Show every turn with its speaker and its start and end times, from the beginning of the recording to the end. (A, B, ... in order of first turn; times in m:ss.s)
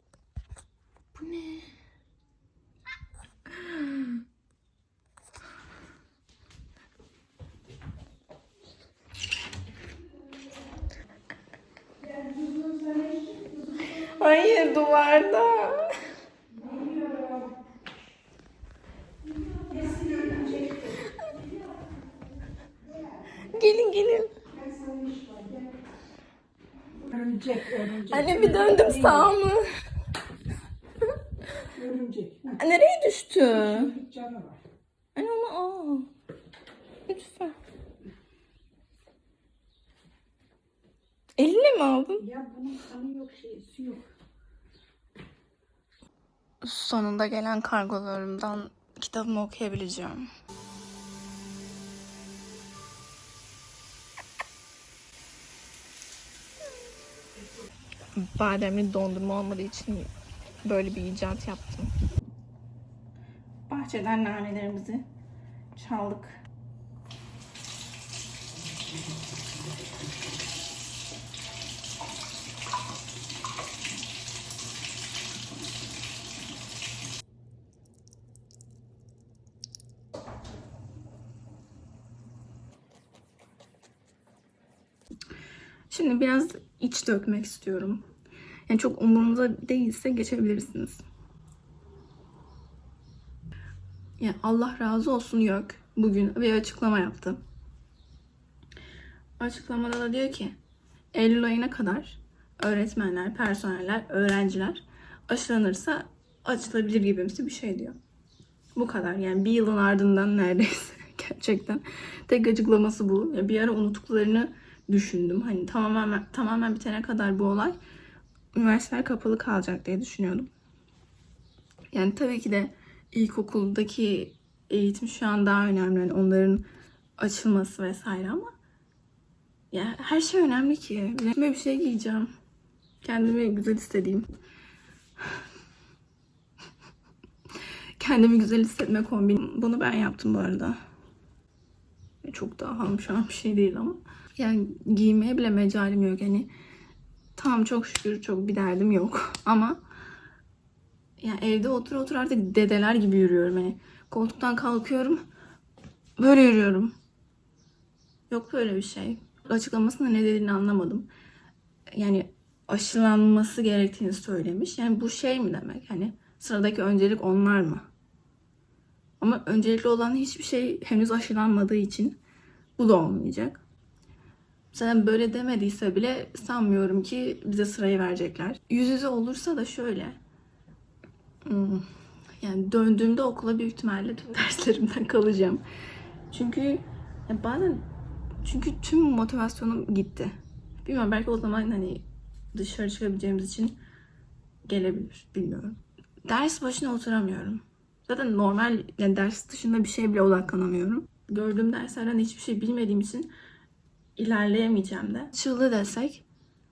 0:01.2-0:01.7 A
0:12.7-0:13.0 B
0:13.8-0:16.0 A
0:19.7-0:20.5 B
0:23.5-0:24.4 A
0:27.1-0:28.1 B
0:27.9-0:29.6 A
0:31.8-0:32.5 B
0:32.5-0:34.0 A
0:34.1-0:34.5 B
0:35.2-0:36.1 A
0:37.1-0:37.6 A
0:41.4-0:42.4 A
0:42.4-0:44.1 B
0:46.6-0:50.3 A
0:58.2-1:00.1 A
1:00.6-1:01.9 A
1:03.7-1:05.1 A
1:05.8-1:06.4 A
1:25.9-1:28.1 A
1:28.7-1:31.0 A
1:34.2-1:37.4 A
1:39.4-1:40.6 A
1:41.1-1:48.0 A
1:48.8-1:57.8 A
1:58.5-2:00.5 A
2:01.9-2:06.7 A
2:07.2-2:08.5 A
2:09.7-2:12.3 A
2:13.0-2:14.3 A
2:18.0-2:20.8 A
2:22.2-2:26.5 A
2:27.4-2:29.8 A
2:31.2-2:35.2 A
2:36.2-2:37.0 A
2:38.3-2:41.1 A
2:41.9-2:47.9 A
2:49.2-2:52.2 A
2:52.8-2:53.6 A
2:54.7-3:00.2 A
3:01.4-3:01.9 A
3:02.4-3:05.6 A
3:06.3-3:07.9 A
3:08.4-3:13.8 A
3:14.7-3:23.3 A
3:24.2-3:26.2 A